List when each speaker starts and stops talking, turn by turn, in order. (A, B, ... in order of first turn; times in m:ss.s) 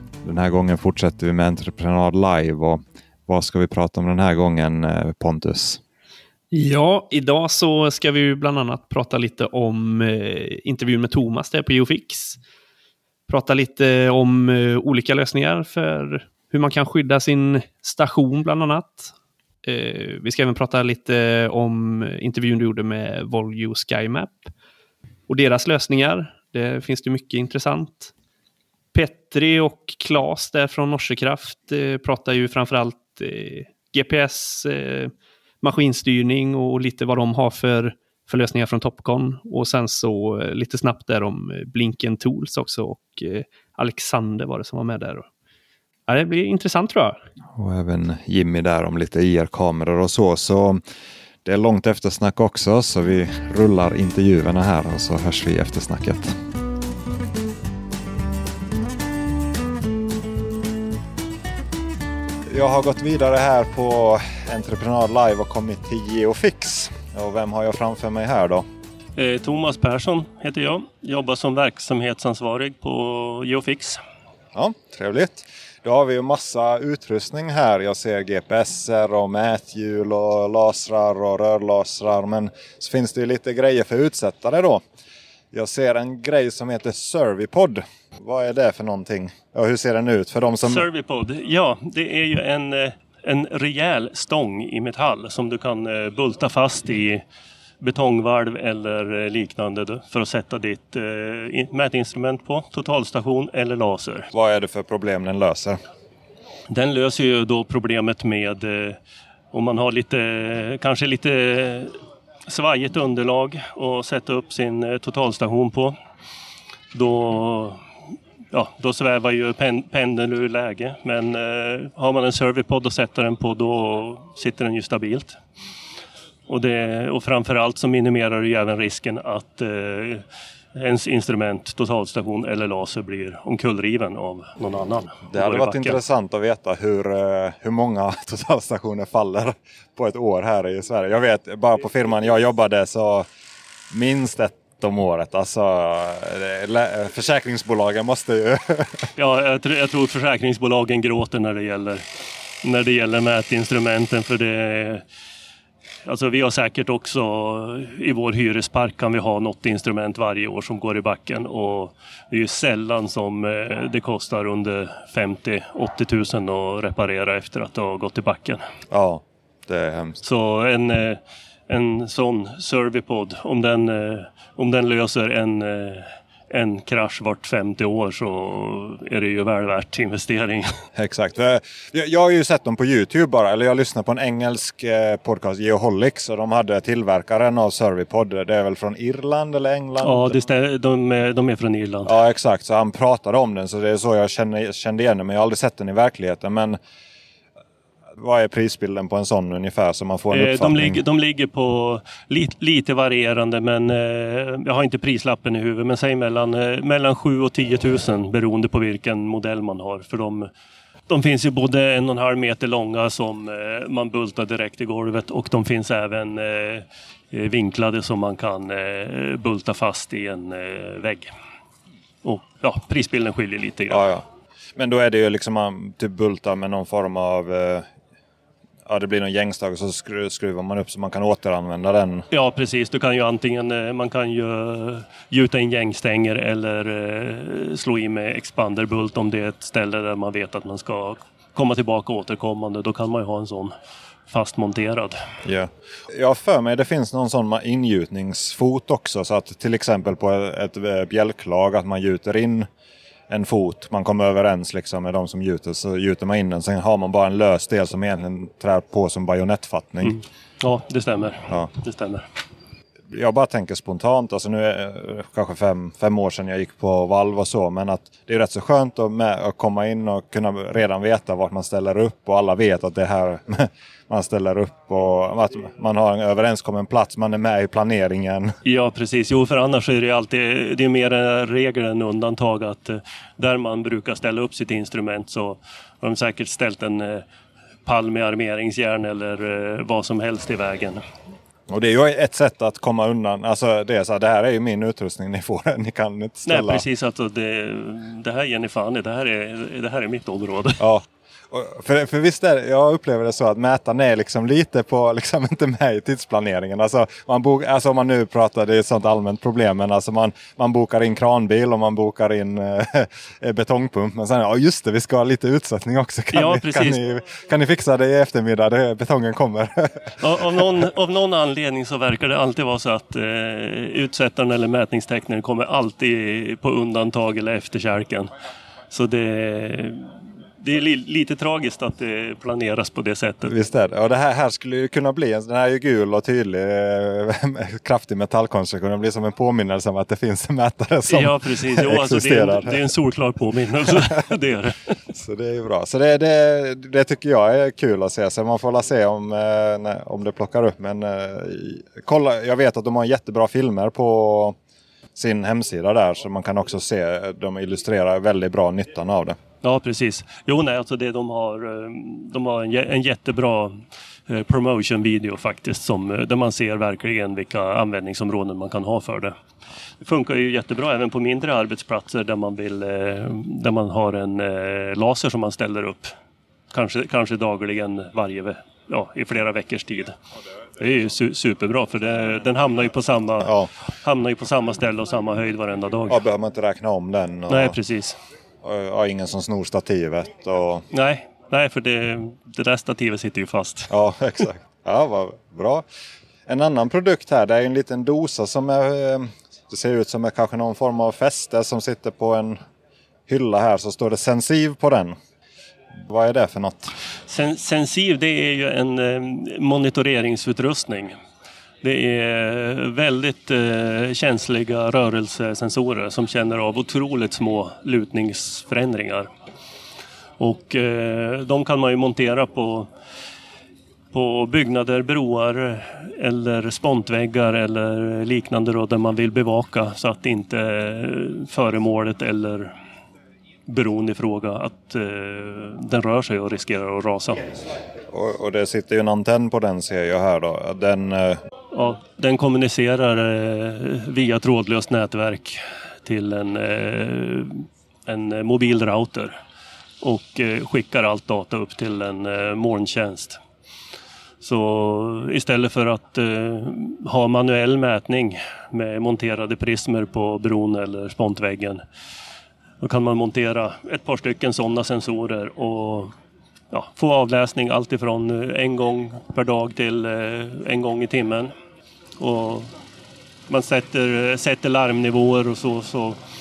0:00.2-0:05.8 A
0:06.5-0:12.4 B
0:13.3-0:19.1 B
0:19.6-0:24.5 B
0:25.3-0:28.1 B
0:28.9-0:45.3 B
0:46.1-0:47.2 B
0:47.5-0:50.8 A
0:51.4-0:56.4 A
1:02.5-1:08.7 A
1:09.2-1:14.0 C
1:14.6-1:24.8 A
1:25.5-1:30.9 A
1:30.6-1:37.2 C
1:37.8-1:44.3 C
1:44.3-1:45.8 A
1:46.7-1:49.0 C
1:49.5-1:56.0 C
1:56.9-1:57.8 C
1:58.5-2:05.4 C
2:06.5-2:16.0 C
2:15.3-2:23.3 A
2:23.9-2:29.1 A
2:29.2-2:32.0 C
2:32.6-2:35.0 C
2:36.0-2:48.6 C
2:48.9-2:50.2 A
2:50.2-3:00.7 C
3:01.0-3:10.4 A
3:10.0-3:12.1 C
3:12.0-3:16.8 A
3:18.2-3:21.0 A
3:20.3-3:30.5 C
3:31.1-3:41.3 C
3:42.2-3:44.1 C
3:43.9-3:44.2 A
3:44.8-3:47.9 A
3:48.9-3:52.3 A
3:52.3-4:03.7 C
4:04.3-4:05.2 C
4:05.4-4:12.7 A
4:13.3-4:20.2 A
4:20.0-4:22.3 C
4:23.1-4:38.6 A
4:38.6-4:47.3 C
4:47.8-4:51.0 C
4:51.7-4:56.8 A
4:56.5-5:00.8 C
5:00.8-5:20.2 A
5:16.3-5:17.0 C
5:20.2-5:28.3 C
5:28.9-5:33.5 C
5:33.5-5:42.8 A
5:41.1-5:44.9 C
5:45.1-5:54.6 A
5:55.2-5:59.4 A
5:59.6-6:09.4 C
6:10.0-6:16.1 C
6:16.7-6:20.2 C
6:20.8-6:26.2 C
6:23.4-6:23.7 A
6:26.1-6:27.8 A
6:27.5-6:28.2 C
6:28.6-6:30.9 A
6:30.9-6:33.9 C
6:33.9-6:35.8 A
6:36.5-6:42.6 A
6:43.3-6:45.2 A
6:46.0-6:46.9 A
6:47.3-6:51.2 C
6:51.8-6:59.3 C
7:00.4-7:02.9 C
7:04.1-7:12.7 C
7:13.7-7:17.5 C
7:18.1-7:21.4 A
7:21.7-7:29.4 C
7:30.0-7:33.4 C
7:34.4-7:41.8 C
7:42.8-7:46.1 C
7:46.7-7:51.5 C
7:52.2-7:52.7 C
7:53.5-7:56.2 C